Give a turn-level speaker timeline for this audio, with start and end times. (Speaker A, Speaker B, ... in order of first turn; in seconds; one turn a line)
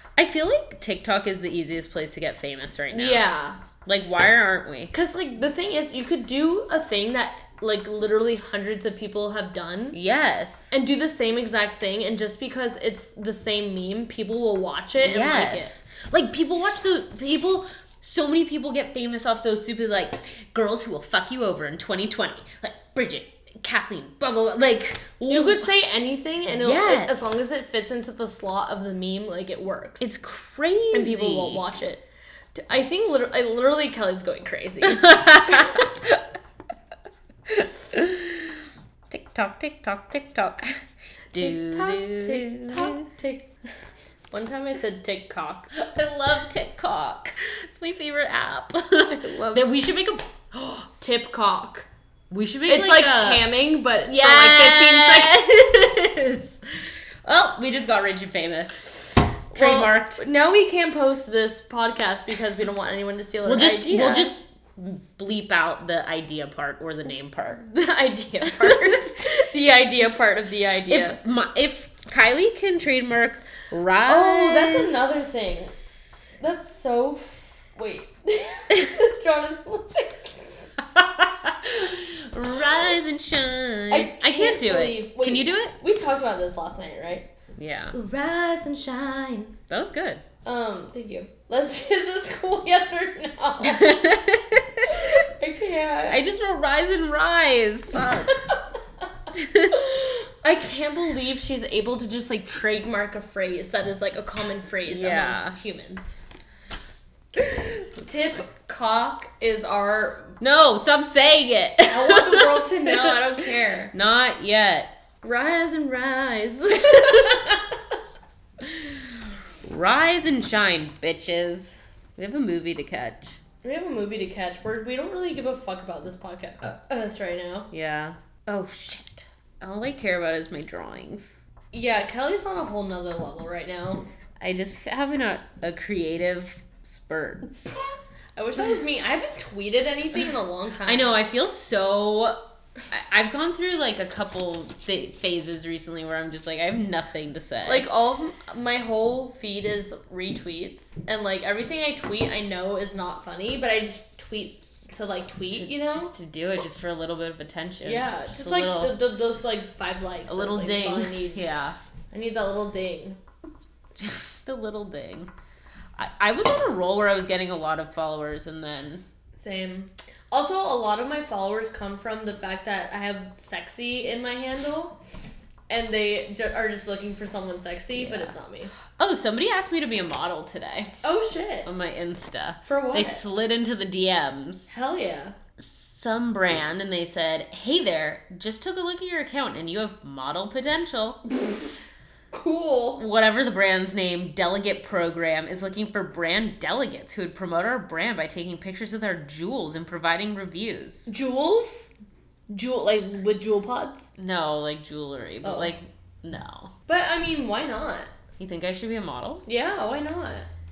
Speaker A: 0.1-3.2
Speaker B: 2.9-3.6
Speaker A: 3.8-4.9
Speaker B: 4.9-10.0
Speaker A: 9.9-10.7
Speaker B: 10.7-15.8
Speaker A: 15.0-25.7
Speaker B: 25.3-30.1
Speaker A: 26.6-27.4
Speaker A: 30.0-31.6
Speaker B: 30.9-35.9
Speaker A: 34.9-35.9
Speaker A: 37.5-40.8
Speaker A: 41.3-43.1
Speaker B: 41.3-43.5
Speaker B: 44.3-45.7
Speaker A: 45.7-50.3
Speaker B: 49.1-49.7
Speaker B: 50.5-51.9
Speaker A: 52.3-53.5
Speaker B: 52.6-55.4
Speaker A: 54.0-60.2
Speaker B: 59.5-64.3
Speaker A: 63.4-67.6
Speaker B: 67.6-71.2
Speaker A: 68.5-69.1
Speaker A: 70.9-76.0
Speaker B: 74.0-75.8
Speaker B: 76.4-80.6
Speaker A: 80.8-85.8
Speaker B: 83.9-87.3
Speaker A: 87.5-88.0
Speaker B: 87.9-89.6
Speaker A: 89.7-90.2
Speaker B: 90.4-93.9
Speaker A: 93.6-95.0
Speaker B: 94.9-96.2
Speaker A: 96.1-98.4
Speaker A: 99.3-99.7
Speaker B: 99.7-106.1
Speaker A: 104.8-105.6
Speaker B: 108.0-110.4
Speaker A: 110.4-113.2
Speaker B: 111.8-113.9
Speaker A: 113.9-115.0
Speaker B: 115.2-117.7
Speaker A: 116.9-117.4
Speaker A: 119.6-123.4
Speaker B: 123.6-127.7
Speaker A: 127.7-131.4
Speaker B: 131.7-134.1
Speaker A: 134.4-137.6
Speaker B: 138.3-141.2
Speaker A: 140.8-147.9
Speaker B: 147.7-156.1
Speaker A: 155.5-159.0
Speaker B: 157.8-161.4
Speaker A: 160.3-161.8
Speaker B: 162.1-163.2
Speaker A: 164.0-165.3
Speaker A: 165.9-169.0
Speaker B: 169.3-175.0
Speaker B: 175.7-178.7
Speaker A: 177.9-178.3
Speaker A: 178.9-180.9
Speaker B: 181.0-181.7
Speaker A: 181.6-184.7
Speaker B: 182.6-183.2
Speaker B: 184.7-185.3
Speaker A: 185.6-191.2
Speaker B: 192.3-193.0
Speaker A: 193.0-201.1
Speaker B: 201.1-201.9
Speaker B: 202.5-204.1
Speaker A: 204.2-206.7
Speaker B: 205.4-205.7
Speaker B: 206.9-208.1
Speaker A: 208.4-209.4
Speaker B: 209.5-210.5